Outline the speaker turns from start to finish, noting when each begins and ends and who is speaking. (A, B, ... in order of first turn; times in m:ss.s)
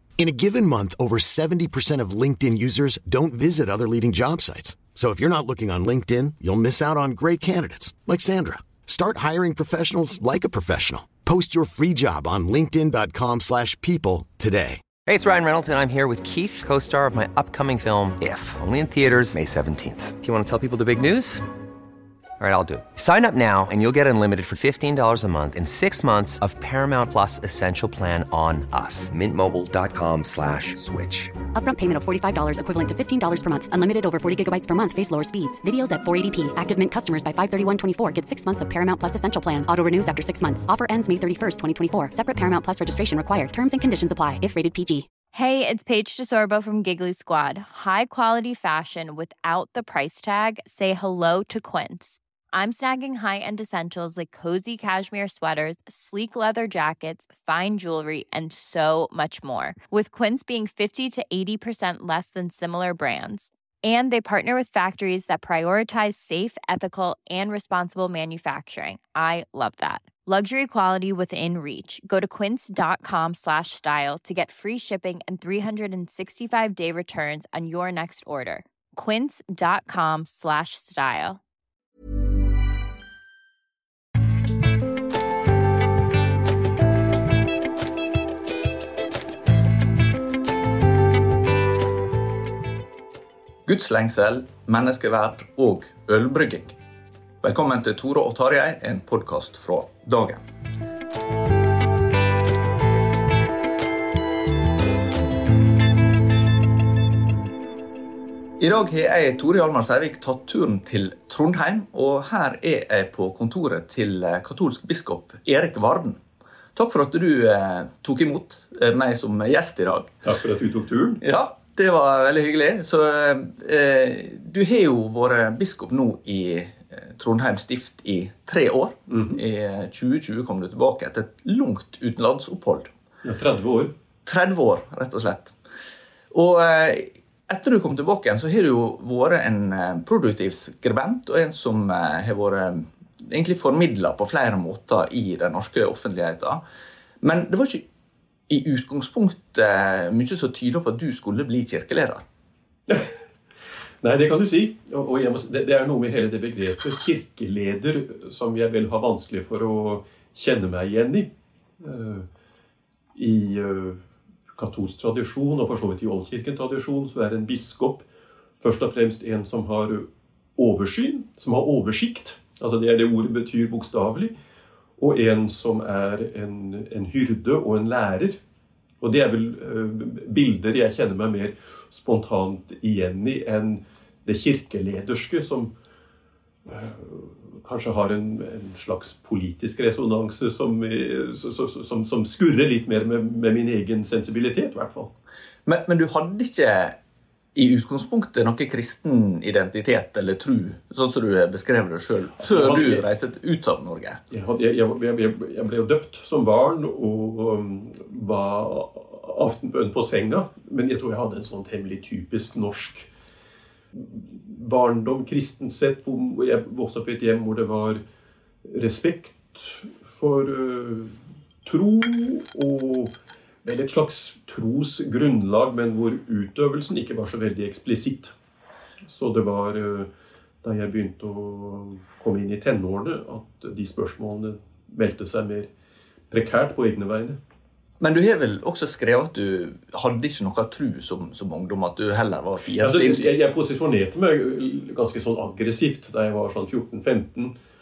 0:00.2-0:14.8 A
0:15.1-0:21.4 B
0:22.4-0:31.4 B
0:31.5-0:45.1 C
0:45.3-1:21.4 D
1:33.6-1:36.8 E
1:37.4-1:40.4 E
1:48.6-1:56.2 E
1:56.7-2:00.1 E
2:00.2-2:01.2 F
2:01.2-2:12.9 E
2:09.1-2:09.4 F
2:13.2-2:13.9 F
2:14.2-2:15.5 E
2:16.3-2:26.6 E
2:27.2-2:27.8 E
2:28.5-2:32.2 E
2:34.0-2:41.3 F
2:41.8-2:42.2 F
2:43.1-2:44.0 F
2:44.6-2:48.0 F
2:48.6-2:54.3 F
2:55.0-2:58.4 F
2:59.0-3:05.7 F
3:06.6-3:15.1 F
3:15.6-3:17.0 E
3:17.5-3:24.2 E
3:22.4-3:23.0 F
3:24.3-3:33.1 F
3:33.9-3:38.0 F
3:38.7-3:41.1 F
3:41.6-3:43.1 F
3:43.6-3:48.3 F
3:49.0-3:50.1 F
3:50.6-3:55.7 F
3:56.3-3:57.4 F
3:58.0-4:03.4 E
4:02.8-4:07.5 F